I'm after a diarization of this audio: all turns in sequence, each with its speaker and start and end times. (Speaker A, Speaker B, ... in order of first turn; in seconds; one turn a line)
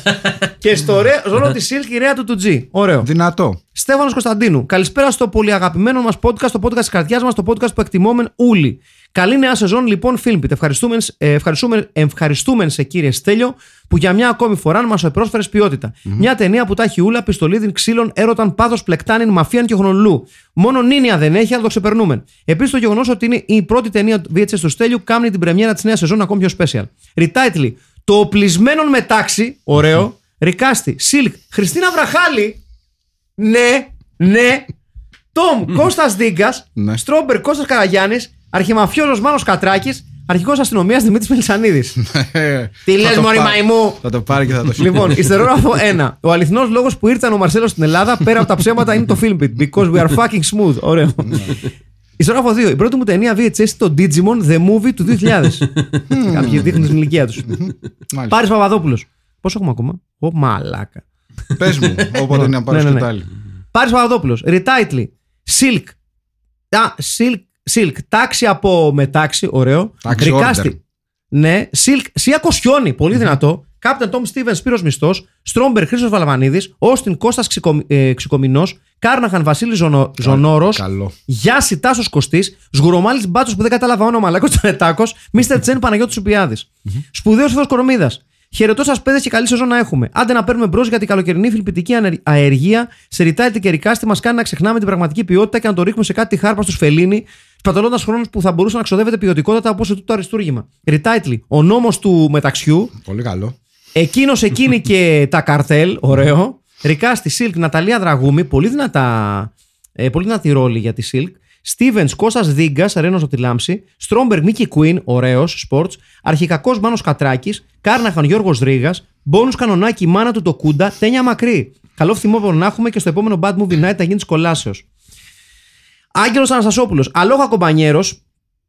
Speaker A: 0.6-3.1
Speaker B: 3.0-3.6
Speaker A: 3.7-32.6
Speaker A: 33.4-34.7
Speaker A: 35.3-42.0
Speaker B: 36.8-37.0
Speaker B: 42.0-45.3
Speaker A: 42.9-44.0
Speaker A: 44.7-51.6
Speaker B: 51.2-51.5
Speaker A: 52.2-57.5
Speaker B: 56.1-56.9
Speaker B: 57.4-58.4
Speaker A: 58.3-61.0
Speaker B: 61.5-63.3
Speaker A: 62.3-63.1
Speaker A: 63.7-66.0
Speaker A: 66.7-70.8
Speaker B: 70.0-70.8
Speaker A: 71.3-102.9
Speaker B: 80.2-81.1
Speaker B: 102.9-103.5
Speaker A: 103.9-124.8
Speaker A: 126.2-128.2